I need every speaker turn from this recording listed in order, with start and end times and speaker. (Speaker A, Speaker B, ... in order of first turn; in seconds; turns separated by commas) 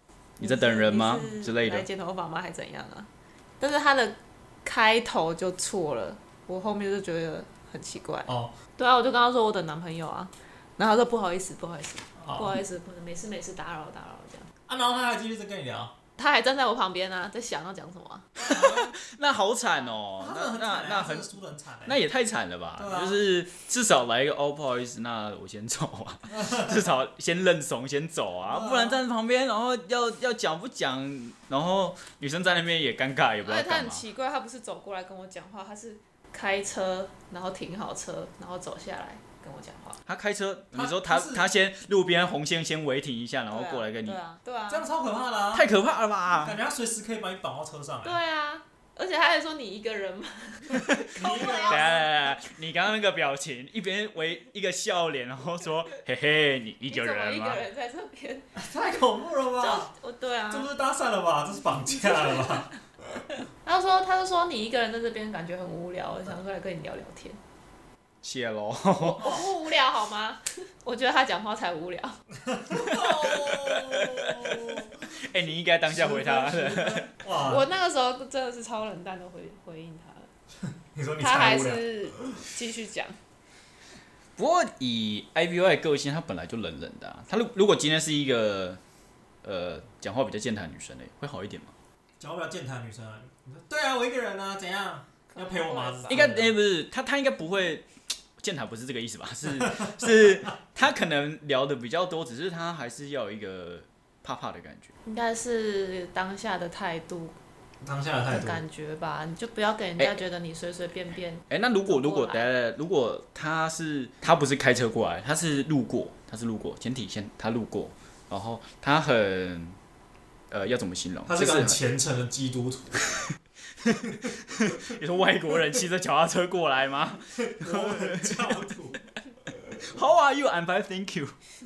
Speaker A: 0.4-1.9, Speaker B: 0.4-3.1, Speaker B: 3.6-14.5, Speaker C: 8.3-8.5, Speaker C: 12.2-12.6, Speaker C: 14.7-15.9, Speaker B: 16.2-18.4, Speaker C: 18.4-18.9, Speaker A: 18.4-21.3, Speaker C: 20.2-22.0, Speaker A: 21.8-34.0, Speaker C: 22.8-23.2, Speaker C: 26.4-26.7, Speaker C: 28.5-29.0, Speaker B: 33.4-40.0, Speaker A: 40.0-44.2, Speaker C: 40.7-41.5, Speaker B: 43.5-44.9, Speaker C: 44.7-45.7, Speaker A: 45.5-46.6, Speaker C: 46.4-48.2, Speaker B: 48.0-52.4, Speaker A: 50.8-57.6, Speaker C: 51.1-52.0, Speaker B: 56.9-58.5, Speaker C: 58.5-59.9, Speaker B: 59.6-60.7, Speaker C: 60.5-63.2, Speaker B: 62.1-62.6, Speaker B: 63.6-67.4, Speaker A: 68.2-69.3, Speaker B: 69.0-72.2, Speaker C: 69.2-69.5, Speaker C: 72.4-75.0, Speaker A: 72.8-77.1, Speaker C: 75.9-77.7, Speaker B: 77.3-80.3, Speaker C: 80.7-82.4, Speaker B: 81.2-83.2, Speaker A: 84.4-88.8, Speaker A: 89.4-91.7, Speaker C: 92.2-96.5, Speaker B: 95.3-96.3, Speaker A: 96.1-97.9, Speaker A: 98.4-104.9, Speaker C: 99.5-100.3, Speaker B: 105.0-107.3, Speaker C: 107.8-108.6, Speaker B: 108.3-112.5, Speaker A: 111.5-119.8, Speaker A: 120.5-121.8, Speaker C: 121.2-123.0, Speaker A: 123.8-128.6, Speaker C: 124.0-124.3, Speaker C: 127.3-129.0, Speaker A: 129.7-131.3